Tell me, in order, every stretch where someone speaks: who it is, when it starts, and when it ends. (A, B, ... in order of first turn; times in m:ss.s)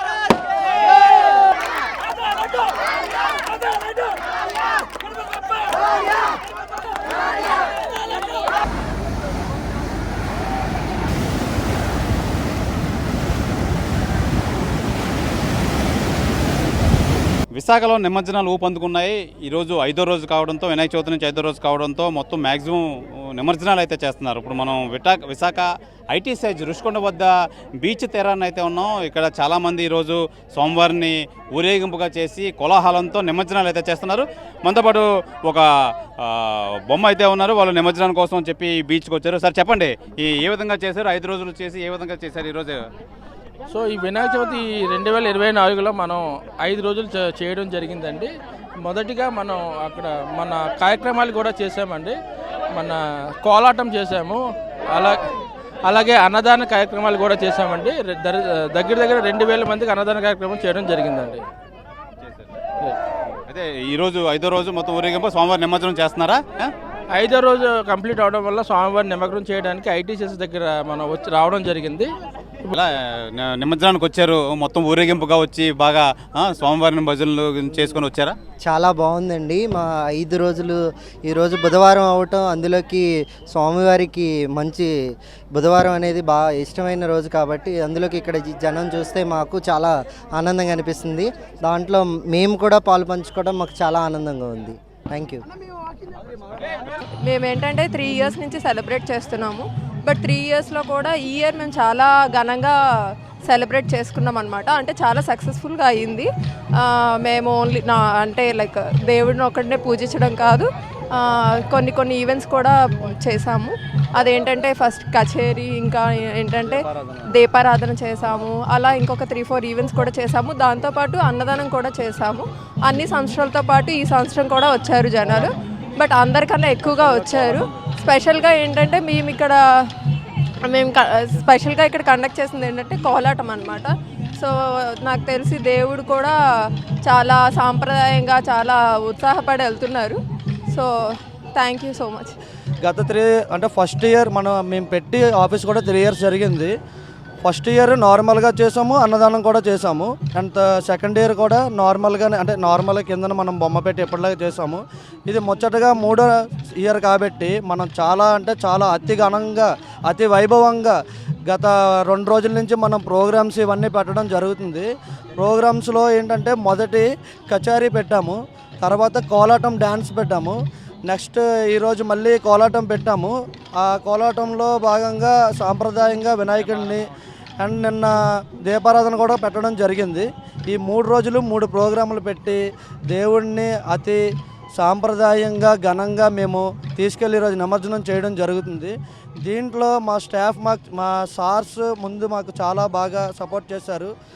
0:17.6-0:22.8 A
0:23.4-0:27.3 A
0:27.8-0:35.6 A
0:36.2-0:42.8 A
0:43.7-0:48.3 B
0:48.8-0:52.2 B
0:52.7-0:54.4 B
0:55.9-1:01.4 B
1:03.5-1:06.7 A
1:07.1-1:12.1 B
1:13.4-1:18.4 A
1:18.7-1:20.8 C
1:21.3-1:24.9 C
1:25.6-1:35.4 C
1:37.2-1:42.8 D
1:43.5-1:46.3 D
1:46.8-2:09.6 D
2:10.7-2:16.4 D
2:17.1-2:20.2 D
2:21.6-2:22.4 D
2:22.8-2:26.7 E
2:27.4-2:36.3 E
2:36.8-2:41.0 E
2:41.5-2:44.9 E
2:45.4-2:50.6 E
2:51.1-2:57.1 E
2:57.6-2:58.1 E
2:58.6-3:04.2 E
3:04.8-3:14.1 E